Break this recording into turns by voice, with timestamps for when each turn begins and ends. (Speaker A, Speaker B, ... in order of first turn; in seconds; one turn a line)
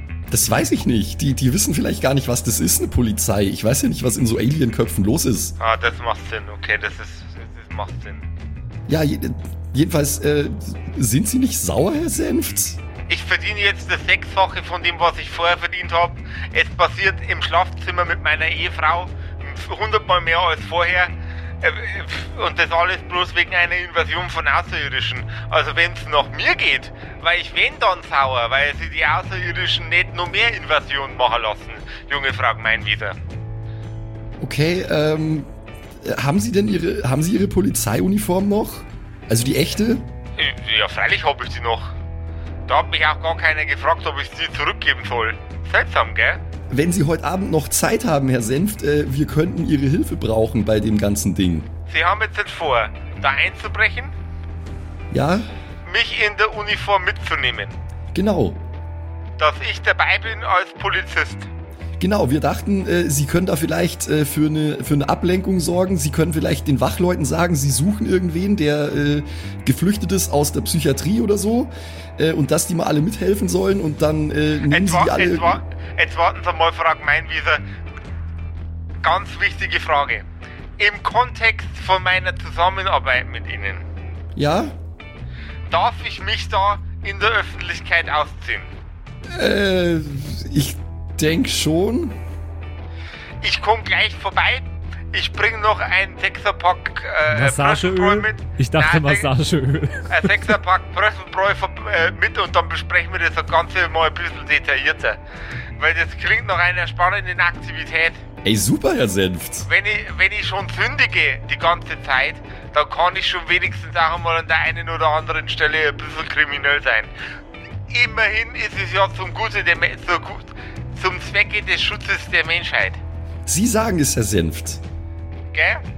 Speaker A: 0.3-5.6
Speaker B: 5.6-8.2
Speaker A: 8.9-12.8
Speaker B: 13.1-33.2
Speaker A: 34.4-35.5
Speaker A: 36.0-40.0
Speaker B: 40.4-41.9
Speaker B: 42.7-46.4
Speaker A: 46.7-51.7
Speaker B: 51.9-54.1
Speaker A: 55.1-55.5
Speaker B: 55.9-57.8
Speaker A: 58.1-58.6
Speaker B: 59.4-61.5
Speaker A: 62.0-75.6
Speaker B: 74.7-77.6
Speaker B: 79.0-80.2
Speaker B: 80.8-83.8
Speaker A: 84.3-84.8
Speaker B: 85.7-88.7
Speaker A: 89.3-92.2
Speaker B: 93.4-99.3
Speaker C: 97.3-100.3
Speaker B: 100.1-105.2
Speaker B: 105.8-108.2
Speaker A: 108.4-109.7
Speaker B: 109.7-117.1
Speaker B: 117.9-123.0
Speaker A: 123.5-124.8
Speaker B: 125.5-125.8